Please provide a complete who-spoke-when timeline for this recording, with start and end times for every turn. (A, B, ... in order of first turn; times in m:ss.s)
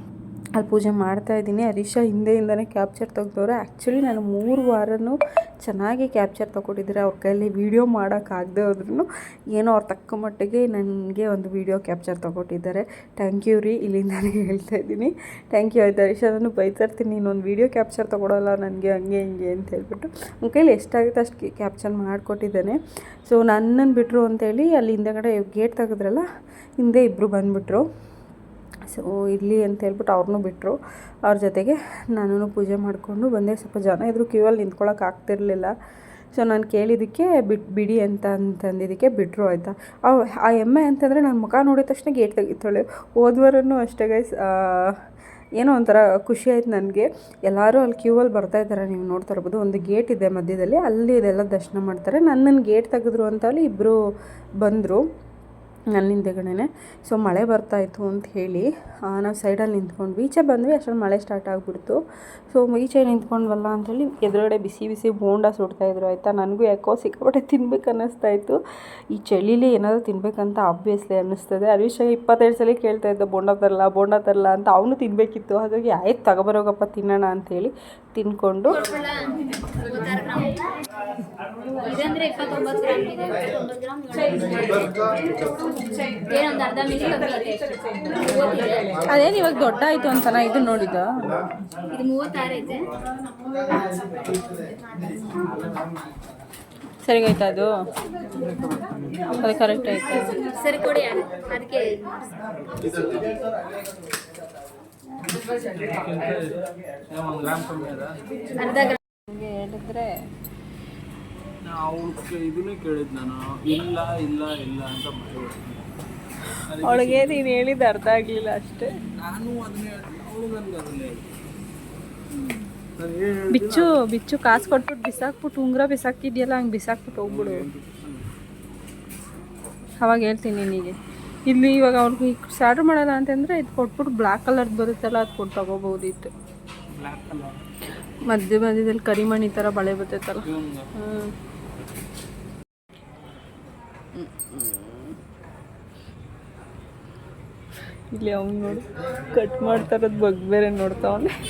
0:00.6-0:26.2 A
0:26.8-0:27.9 A
0:28.9-0:35.7 A
0:36.3-0:45.0 A
0:45.6-0:54.0 A
0:54.6-0:55.0 A
0:55.9-1:08.6 A
1:09.1-1:18.8 A
1:18.8-1:20.7 B
1:21.8-1:29.0 B
1:29.1-1:31.4 A
1:31.9-1:32.9 B
1:37.0-1:37.7 A
1:38.4-1:39.3 C
1:39.3-1:40.4 A
1:40.4-1:42.1 B
1:45.6-1:48.1 C
1:48.6-1:49.0 B
1:49.3-1:50.1 A
1:51.6-1:55.9 C
1:56.7-1:57.5 C
1:56.8-1:58.9 A
1:59.2-2:01.3 C
2:03.0-2:03.9 C
2:03.5-2:07.7 A
2:07.1-2:08.3 C
2:10.0-2:16.3 A
2:17.0-2:17.6 C
2:18.3-2:21.3 A
2:20.4-2:20.9 C
2:24.2-2:25.2 A
2:28.1-2:31.3 A